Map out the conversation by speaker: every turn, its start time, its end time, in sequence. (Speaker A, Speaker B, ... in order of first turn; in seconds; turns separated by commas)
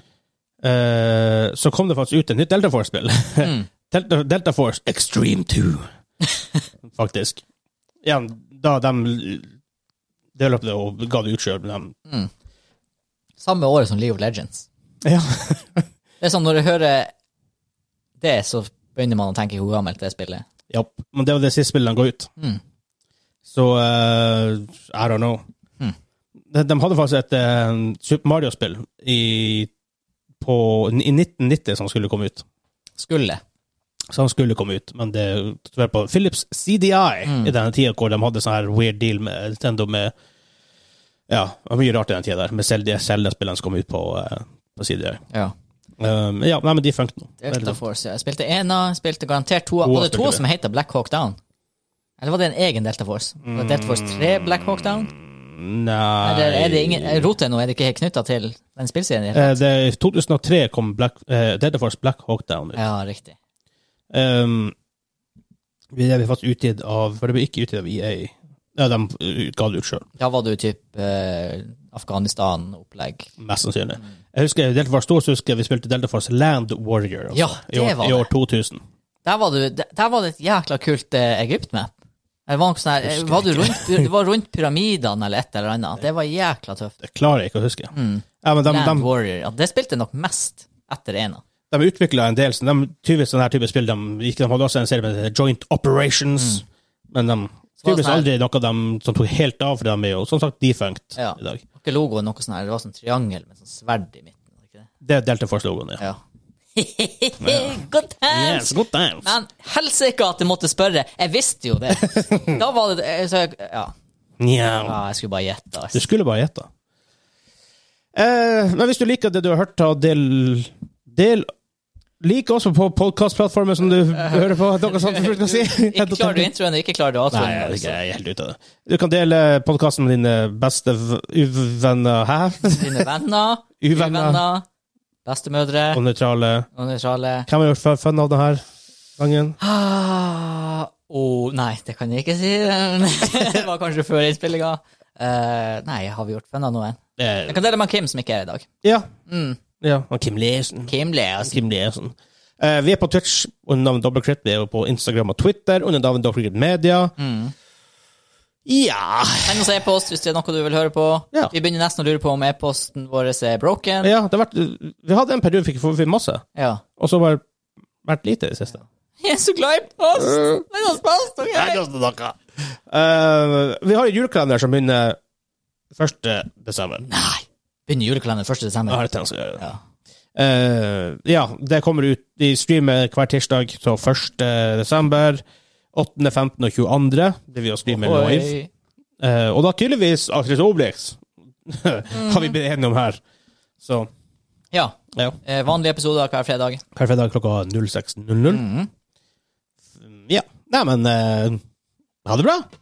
Speaker A: 0.6-5.8, Speaker B: 3.4-3.7, Speaker A: 6.8-7.4, Speaker A: 8.0-9.5, Speaker A: 10.3-11.9, Speaker B: 13.4-14.7, Speaker A: 15.0-15.8, Speaker B: 16.2-17.1, Speaker B: 18.2-20.5, Speaker A: 20.7-22.3, Speaker A: 23.4-25.4, Speaker A: 26.5-29.7, Speaker A: 30.4-32.4, Speaker B: 33.0-33.4, Speaker A: 34.1-40.1, Speaker B: 37.2-37.5, Speaker A: 41.3-45.2, Speaker A: 46.0-47.8, Speaker B: 47.4-51.4, Speaker A: 49.8-50.4, Speaker B: 52.2-55.1, Speaker A: 53.4-54.4, Speaker A: 55.2-57.3, Speaker B: 56.2-59.6, Speaker A: 59.3-62.8, Speaker B: 62.7-63.4, Speaker A: 64.1-64.7, Speaker A: 65.9-70.0, Speaker B: 70.2-73.3, Speaker A: 73.4-78.8, Speaker B: 77.3-78.3, Speaker B: 79.2-81.9, Speaker B: 82.5-87.0, Speaker A: 83.0-84.1, Speaker A: 87.0-89.1, Speaker B: 87.9-91.4, Speaker A: 91.7-101.6, Speaker B: 97.8-98.3, Speaker B: 101.2-104.9, Speaker A: 105.0-106.0, Speaker B: 106.7-113.9, Speaker A: 107.4-109.3, Speaker A: 112.0-112.6, Speaker A: 114.4-115.0, Speaker B: 114.8-116.0, Speaker A: 115.9-116.7, Speaker A: 118.1-121.5, Speaker A: 122.2-126.5, Speaker B: 124.1-128.0, Speaker A: 127.3-133.1, Speaker B: 132.7-134.6, Speaker A: 133.8-134.4, Speaker B: 135.2-136.0, Speaker A: 135.9-136.7, Speaker B: 136.7-137.5, Speaker A: 137.5-138.6, Speaker A: 139.2-139.6, Speaker B: 139.6-148.7, Speaker A: 147.2-147.5, Speaker A: 148.8-149.1, Speaker B: 149.3-149.6, Speaker A: 149.8-157.1, Speaker B: 150.9-151.6, Speaker B: 157.2-157.5, Speaker A: 158.7-159.7, Speaker B: 159.4-164.1, Speaker A: 164.0-166.4, Speaker B: 166.6-166.8, Speaker A: 167.0-167.4, Speaker A: 168.0-168.8, Speaker B: 169.2-171.8, Speaker A: 171.5-175.2, Speaker A: 175.9-177.1, Speaker B: 177.1-179.0, Speaker A: 178.9-179.6, Speaker A: 180.3-185.4, Speaker A: 185.9-188.5, Speaker B: 187.9-188.7, Speaker A: 189.2-193.2, Speaker B: 192.1-192.5, Speaker A: 193.8-194.1, Speaker B: 194.7-196.8, Speaker A: 196.9-198.6, Speaker B: 198.5-198.9, Speaker A: 200.0-201.6, Speaker A: 202.2-202.7